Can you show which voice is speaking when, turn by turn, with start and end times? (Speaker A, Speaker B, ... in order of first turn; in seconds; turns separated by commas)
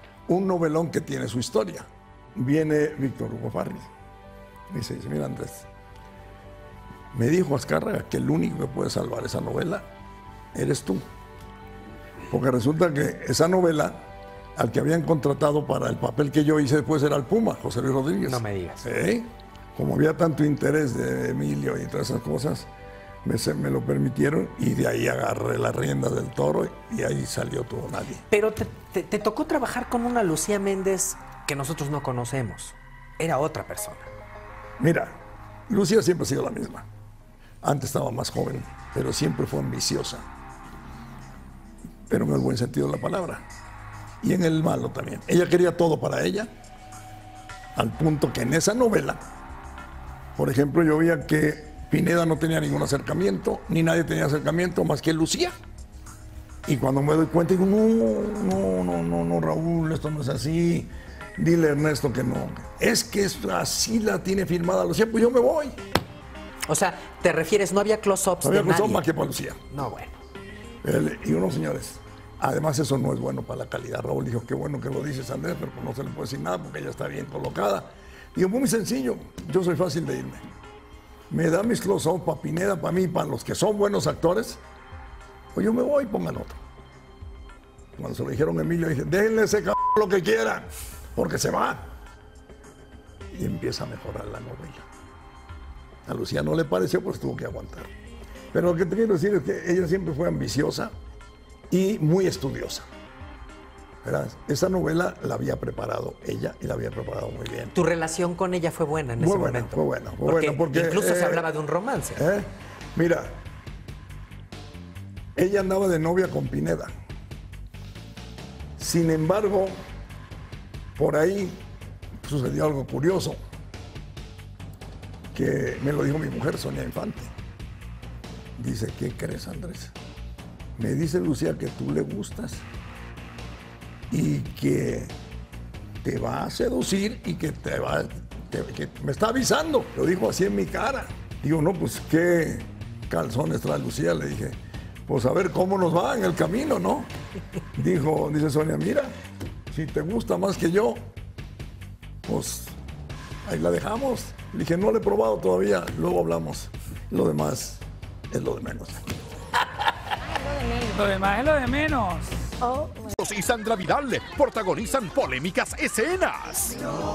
Speaker A: 0.3-3.9, Speaker A: 4.7-5.7, Speaker A: 7.1-9.9, Speaker A: 10.5-11.0, Speaker A: 12.3-14.0, Speaker A: 14.6-22.7, Speaker B: 18.2-18.9, Speaker A: 23.2-28.2, Speaker B: 28.3-34.1, Speaker A: 34.8-36.9, Speaker A: 37.6-40.2, Speaker A: 42.1-43.5, Speaker A: 44.2-46.5, Speaker A: 47.7-49.2, Speaker A: 50.4-55.5, Speaker A: 56.7-65.8, Speaker B: 66.7-69.1, Speaker A: 68.4-69.6, Speaker B: 69.7-70.2, Speaker A: 70.8-80.4, Speaker A: 81.3-84.6, Speaker A: 85.5-86.6, Speaker A: 88.0-91.8, Speaker A: 93.3-94.9, Speaker A: 96.1-97.9, Speaker A: 98.5-100.9, Speaker A: 101.7-102.9, Speaker A: 104.0-107.7, Speaker B: 107.7-112.2, Speaker A: 109.2-111.5, Speaker A: 112.2-113.4, Speaker A: 115.4-116.9, Speaker A: 118.8-119.8, Speaker A: 121.0-121.6, Speaker A: 122.2-123.4, Speaker A: 125.3-127.3, Speaker A: 128.6-129.9, Speaker A: 130.8-132.7, Speaker A: 134.1-135.1, Speaker A: 136.0-147.1, Speaker A: 147.8-149.2, Speaker A: 149.7-151.0, Speaker A: 152.2-152.8, Speaker A: 153.5-159.1, Speaker C: 160.3-163.0, Speaker D: 163.0-166.8